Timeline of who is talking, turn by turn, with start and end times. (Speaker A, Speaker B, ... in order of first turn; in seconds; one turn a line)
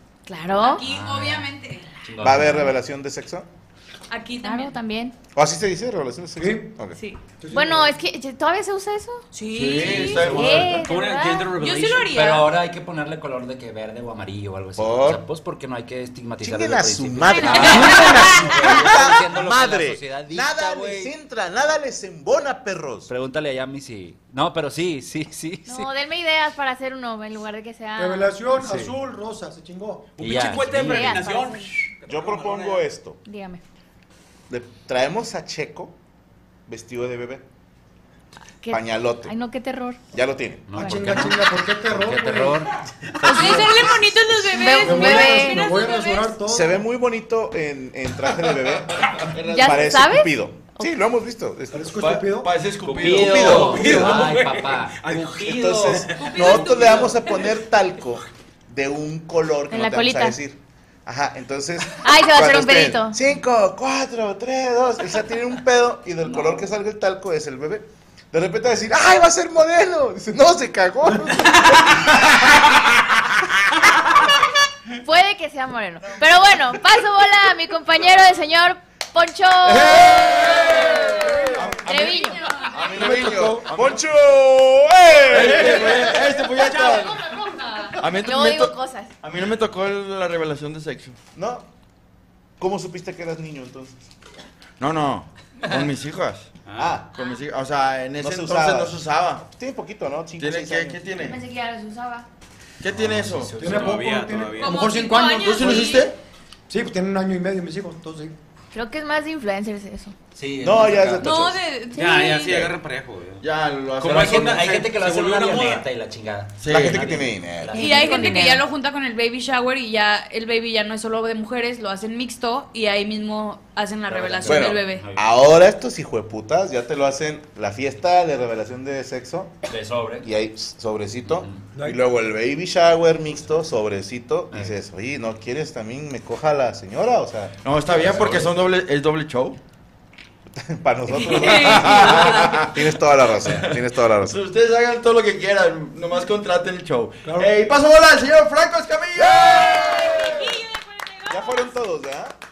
Speaker A: 0.2-0.8
Speaker B: 0.5-2.1
Speaker C: 0.8-1.5
Speaker C: 2.0-2.7
Speaker D: 2.2-3.5
Speaker B: 4.1-4.8
Speaker A: 4.4-5.2
Speaker D: 5.3-7.0
Speaker E: 6.4-6.8
Speaker E: 7.4-7.9
Speaker A: 7.5-9.2
Speaker B: 9.3-12.5
Speaker F: 9.5-10.8
Speaker G: 10.2-12.1
Speaker A: 10.3-11.5
Speaker C: 12.1-21.1
Speaker D: 14.8-15.2
Speaker D: 16.4-23.1
Speaker B: 17.3-18.2
Speaker A: 17.3-18.5
Speaker C: 23.1-25.9
Speaker A: 25.6-28.3
Speaker E: 28.0-30.1
Speaker G: 28.6-28.9
Speaker G: 30.2-32.9
Speaker C: 30.2-31.2
Speaker A: 30.6-31.7
Speaker D: 32.1-33.2
Speaker A: 33.2-33.6
Speaker D: 34.5-36.0
Speaker D: 36.7-37.4
Speaker A: 38.6-40.0
Speaker D: 38.7-39.4
Speaker D: 40.1-40.8
Speaker C: 40.7-43.9
Speaker E: 40.8-42.7
Speaker E: 43.2-43.7
Speaker B: 43.2-46.4
Speaker A: 43.2-43.6
Speaker A: 44.5-45.7
Speaker E: 44.8-46.8
Speaker D: 46.5-52.2
Speaker F: 49.1-49.9
Speaker A: 49.4-50.9
Speaker E: 51.7-52.5
Speaker F: 52.0-54.0
Speaker C: 52.8-56.1
Speaker D: 53.0-53.9
Speaker G: 53.4-57.0
Speaker E: 53.7-54.4
Speaker D: 55.4-73.8
Speaker B: 56.1-57.5
Speaker A: 59.7-60.4
Speaker A: 62.0-63.2
Speaker A: 75.0-81.3
Speaker F: 79.6-82.1
Speaker B: 80.5-81.2
Speaker A: 81.8-82.6
Speaker B: 81.9-83.0
Speaker D: 82.7-86.1
Speaker F: 82.9-84.0
Speaker E: 83.0-83.6
Speaker F: 85.2-87.3
Speaker B: 86.7-88.0
Speaker F: 88.0-91.2
Speaker A: 88.1-89.1
Speaker D: 91.3-91.7
Speaker D: 92.6-94.0
Speaker F: 94.8-96.5
Speaker G: 96.7-97.0
Speaker D: 96.8-97.1
Speaker F: 97.1-99.4
Speaker D: 98.2-101.1
Speaker F: 100.4-101.4
Speaker A: 101.1-102.3
Speaker F: 102.8-103.7
Speaker C: 102.9-104.0
Speaker E: 103.6-106.1
Speaker G: 103.6-104.8
Speaker B: 104.5-106.1
Speaker F: 105.3-106.1
Speaker E: 106.7-108.3
Speaker A: 108.7-110.1
Speaker C: 110.3-111.4
Speaker D: 110.6-111.6
Speaker B: 111.2-112.7
Speaker G: 111.9-115.8
Speaker D: 112.4-112.7
Speaker F: 113.4-114.9
Speaker C: 114.0-118.5
Speaker F: 116.6-117.2
Speaker D: 116.7-117.9
Speaker A: 117.7-118.6
Speaker B: 117.7-125.0
Speaker C: 124.1-125.3
Speaker D: 124.4-129.6
Speaker C: 129.7-130.3
Speaker D: 130.2-137.6
Speaker C: 131.2-131.6
Speaker E: 131.8-132.0
Speaker F: 137.6-139.6
Speaker C: 138.0-138.4
Speaker D: 140.5-144.4
Speaker B: 141.1-142.7
Speaker F: 141.7-142.7
Speaker F: 143.4-150.4
Speaker E: 147.2-147.5
Speaker D: 149.2-150.6
Speaker B: 149.4-151.8
Speaker D: 151.3-152.3